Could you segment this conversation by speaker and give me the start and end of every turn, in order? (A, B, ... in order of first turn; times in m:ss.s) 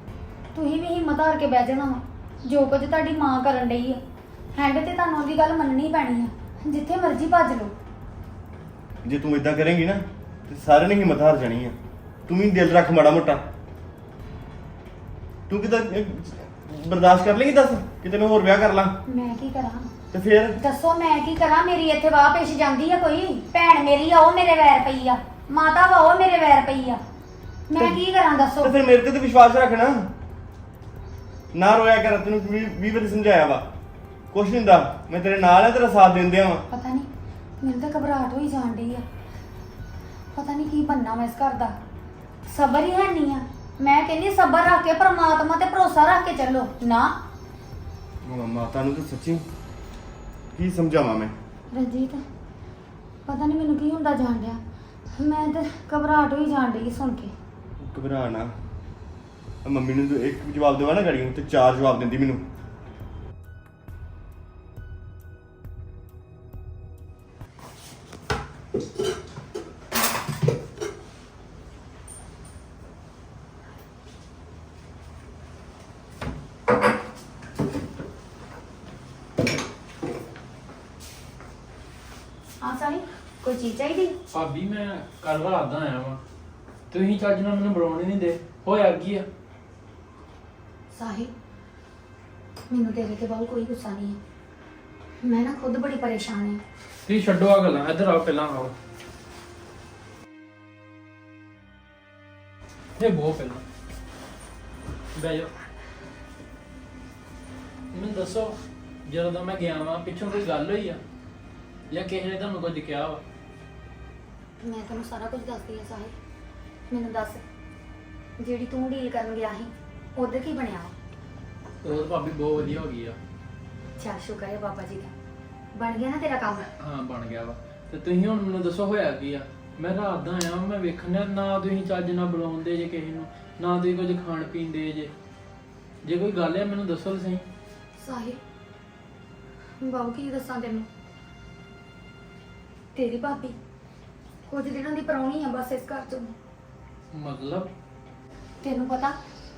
0:00.5-0:04.0 A
0:04.5-0:07.7 A
0:09.0-0:11.8 B
0:12.3-0:13.4 B
0:15.5-0:19.0 B
0:19.1-0:19.9 A
0:20.1-0:20.6 B
0:20.6-0:27.0 A
0:27.7-0:28.8 A
0:28.6-0:30.1 B
0:31.5-0:33.7 B
0:34.3-0:36.6 B
0:36.7-0:37.1 A
0:37.6-0:39.1 A
0:40.3-0:41.8 A
0:42.5-0:47.2 A
0:48.2-0:49.4 B
0:50.5-0:51.3 B
0:51.7-0:52.2 A
0:53.3-0:54.6 A
0:55.2-0:57.3 A
0:57.8-0:58.5 B
0:59.6-1:02.4 B
1:22.6-1:24.2 A
1:24.3-1:26.2 C
1:26.9-1:29.2 C
1:30.9-1:31.3 A
1:32.7-1:34.2 A
1:35.2-1:36.6 A
1:37.1-1:38.7 C
1:43.0-1:43.6 C
1:45.1-1:45.5 C
1:47.9-1:51.0 C
1:51.9-1:53.2 C
1:54.6-1:56.1 A
1:56.9-1:57.4 A
1:58.4-2:00.9 A
2:01.8-2:03.2 C
2:04.0-2:05.1 A
2:05.8-2:06.7 A
2:06.8-2:15.1 C
2:16.0-2:17.4 C
2:18.0-2:18.4 A
2:19.8-2:20.9 A
2:22.9-2:23.6 A
2:24.5-2:26.3 A
2:27.1-2:27.7 C
2:28.6-2:29.2 A